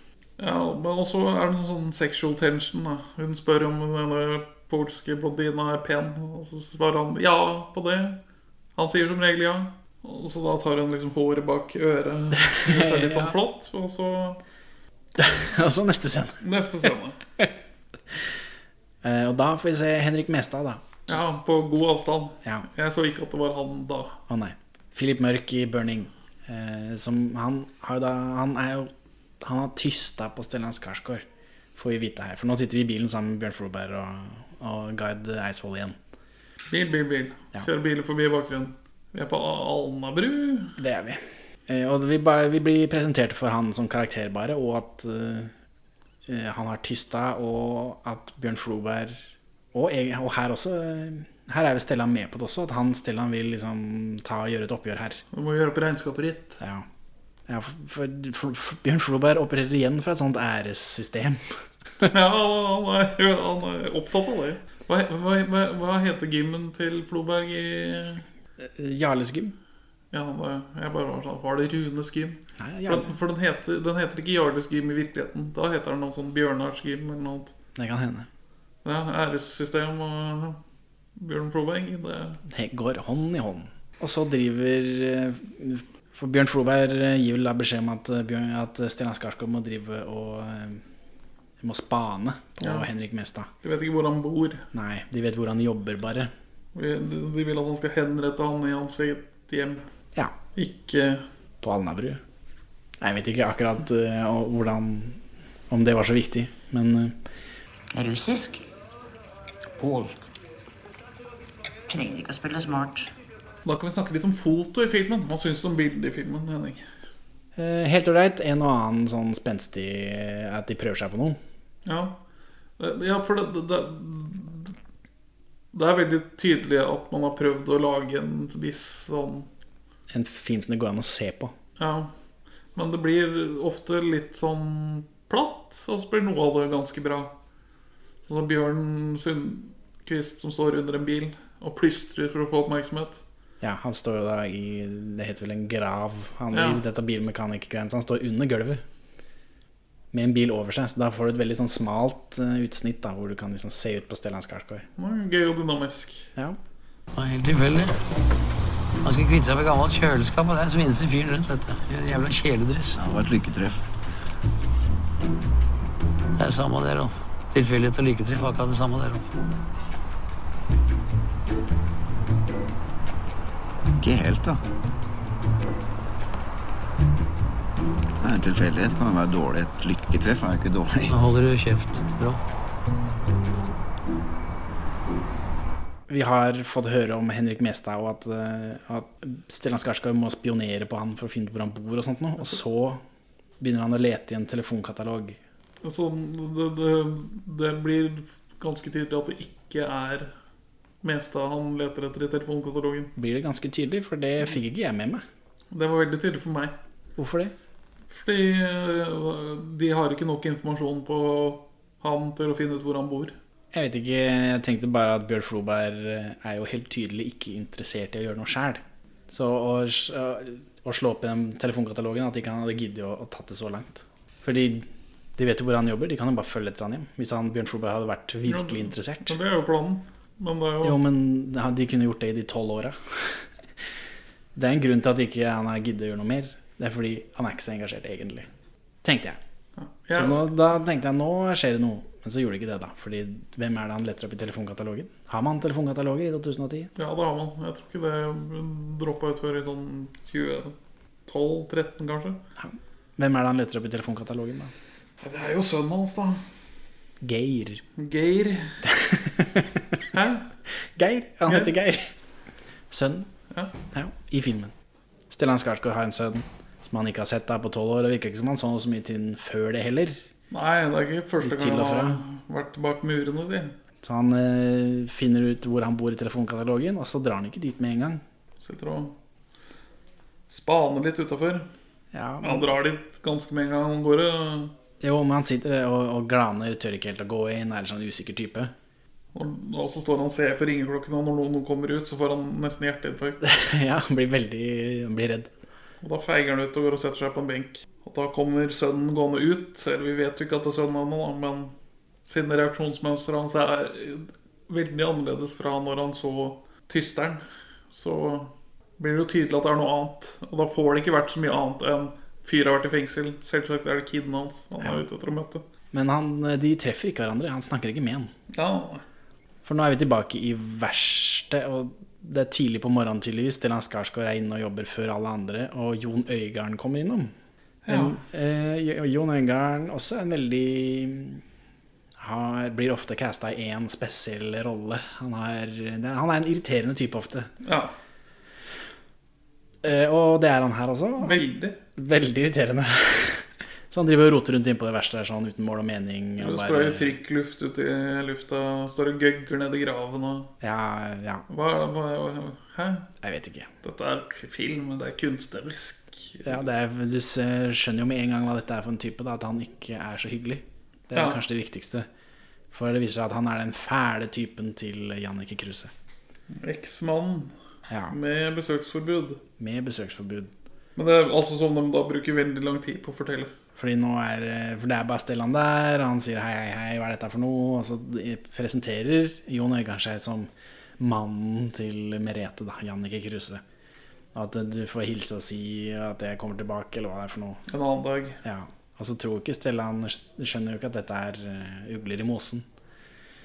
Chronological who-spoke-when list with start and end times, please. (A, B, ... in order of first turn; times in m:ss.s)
0:00.4-0:08.2 A
0:08.8-0:14.4 A
0:12.4-0:13.4 B
0:15.2-0:16.4 B
0:16.4-0:17.2 A
0:19.0-0:20.8 B
0:21.1-0:24.2 A
0:24.3-0:31.2 B
0:31.8-0:36.0 B
0:36.7-0:40.8 A
0:40.8-0:45.5 B
0:46.3-0:55.2 B
0:55.3-0:56.6 A
0:56.6-0:56.9 B
0:57.5-1:01.4 B
1:02.1-1:08.2 A
1:08.6-1:09.5 B
1:10.1-1:17.5 A
1:12.6-1:13.1 B
1:17.7-1:18.3 B
1:18.8-1:20.6 A
1:21.1-1:22.4 A
1:22.4-1:30.8 B
1:31.6-1:33.5 B
1:32.6-1:32.9 A
1:33.6-1:34.7 A
1:34.7-1:36.3 B
1:36.7-1:39.8 A
1:40.6-1:41.2 A
1:41.6-1:42.2 B
1:43.0-1:47.2 B
1:47.9-1:48.6 C
1:51.9-1:53.1 C
1:53.6-1:56.8 A
1:57.6-2:01.4 B
2:01.9-2:02.2 A
2:02.8-2:04.7 A
2:05.7-2:09.5 A
2:10.1-2:11.5 B
2:11.8-2:12.1 A
2:12.7-2:17.3 A
2:18.2-2:23.2 A
2:23.6-2:28.8 B
2:26.5-2:26.8 A
2:30.1-2:34.9 B
2:35.0-2:36.3 A
2:37.1-2:38.0 D
2:39.0-2:43.0 D
2:42.9-2:43.8 E
2:46.4-2:49.3 D
2:54.0-2:54.6 E
2:58.2-3:01.1 E
3:01.1-3:02.4 D
3:06.1-3:13.0 B
3:13.6-3:15.4 B
3:15.8-3:20.3 A
3:21.0-3:23.1 A
3:23.2-3:25.2 B
3:25.7-3:26.7 A
3:27.2-3:27.5 B
3:28.1-3:33.4 A
3:33.7-3:49.4 B
3:48.5-3:51.0 A
3:50.8-3:53.4 B
3:54.6-3:58.5 B
3:59.0-3:59.4 B
3:59.8-4:00.5 A
4:00.1-4:06.9 B
4:07.0-4:12.4 A
4:12.6-4:14.7 B
4:15.2-4:16.4 A
4:17.2-4:17.8 B
4:18.0-4:18.8 A
4:18.8-4:19.8 B
4:20.1-4:20.5 A
4:20.9-4:22.1 B
4:21.4-4:21.7 A
4:22.9-4:23.3 B
4:23.9-4:24.7 B
4:25.3-4:30.2 B
4:30.5-4:33.7 A
4:31.4-4:32.2 B
4:34.0-4:38.2 B
4:38.6-4:39.1 A
4:40.5-4:41.7 A
4:42.1-4:42.7 B
4:42.4-4:44.7 A
4:45.0-4:48.7 B
4:49.3-4:53.4 A
4:53.4-4:55.5 B
4:56.0-5:01.7 A
5:02.3-5:15.6 A
5:15.9-5:18.3 B
5:18.5-5:19.0 A
5:19.6-5:27.3 B
5:27.8-5:28.2 A
5:27.9-5:31.4 B
5:32.2-5:37.5 B
5:37.6-5:38.0 A
5:39.8-5:47.2 B
5:41.2-5:41.8 A
5:46.4-5:50.5 A
5:50.6-5:51.4 B
5:51.5-5:53.1 A
5:53.2-5:53.7 B
5:53.8-5:56.6 A
5:56.4-6:02.1 B
6:01.1-6:01.4 A
6:02.7-6:05.9 B
6:06.5-6:07.5 A
6:07.9-6:08.2 B
6:08.1-6:09.4 A
6:09.6-6:10.5 B
6:11.0-6:13.5 A
6:13.8-6:23.6 B
6:24.3-6:27.6 B
6:27.7-6:28.4 A
6:28.4-6:32.6 B